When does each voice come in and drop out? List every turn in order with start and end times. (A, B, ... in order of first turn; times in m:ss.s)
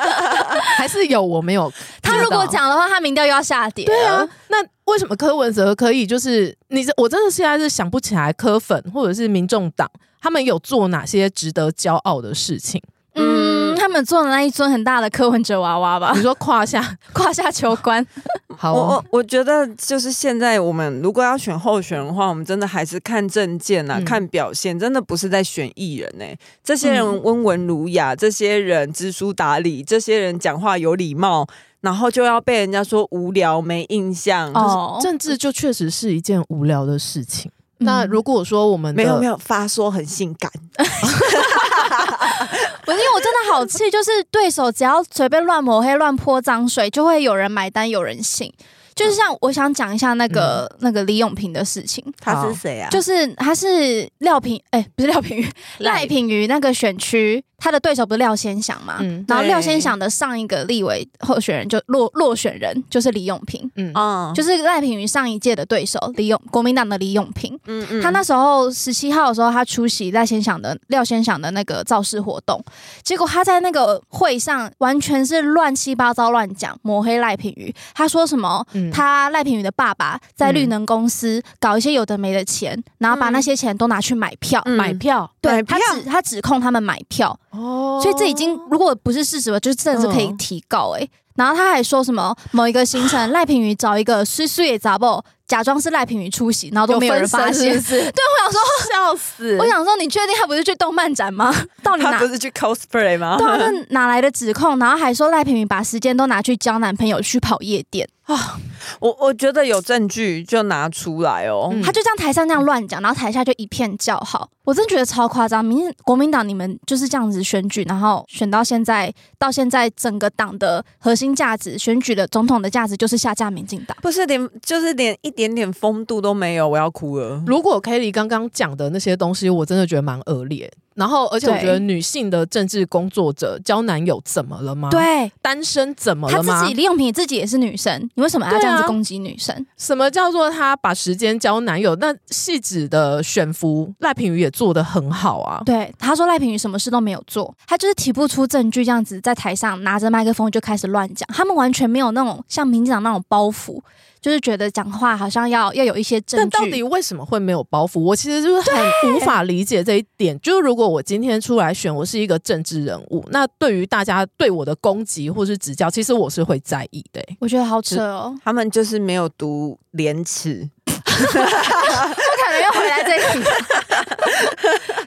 0:00.7-0:02.6 A
0:02.0-0:04.3 B
0:03.8-0:12.8 A
0:13.1-0:16.2 B
0:13.2-0:13.8 C
0:16.1-0:17.0 A
0:17.1-0:18.4 B
0:18.6-0:19.0 A
0:18.7-0:34.7 C
0:23.9-0:24.2 A
0:26.8-0:27.2 B
0:34.5-0:35.1 B
0:34.5-0:39.2 A
0:37.8-0:38.2 B
0:38.9-0:42.5 C
0:40.9-0:41.6 B
0:42.8-0:52.2 B
0:50.3-0:50.6 A
0:52.2-0:53.0 C
0:52.3-0:52.6 A
0:52.9-1:03.7 B
0:59.0-0:59.3 A
0:59.3-0:59.9 C
1:03.8-1:04.0 A
1:03.9-1:04.4 C
1:04.3-1:27.4 B
1:07.7-1:08.2 C
1:18.7-1:19.0 A
1:20.4-1:20.7 A
1:23.1-1:23.4 C
1:24.6-1:26.0 C
1:27.5-1:28.7 A
1:28.0-1:38.9 B
1:29.9-1:30.4 A
1:36.9-1:39.7 A
1:39.6-1:42.3 B
1:42.0-1:43.8 C
1:43.3-1:48.1 B
1:49.0-1:51.8 C
1:51.7-1:52.0 A
1:51.8-2:04.0 B
2:04.0-2:07.5 C
2:07.4-2:16.7 A
2:11.4-2:11.8 B
2:14.9-2:15.3 B
2:16.3-2:19.6 B
2:18.5-2:19.0 A
2:19.8-2:25.7 A
2:25.6-2:36.8 B
2:36.3-2:47.4 A
2:38.6-2:39.3 B
2:47.4-2:48.4 B
2:47.9-2:52.2 C
2:51.1-2:54.0 B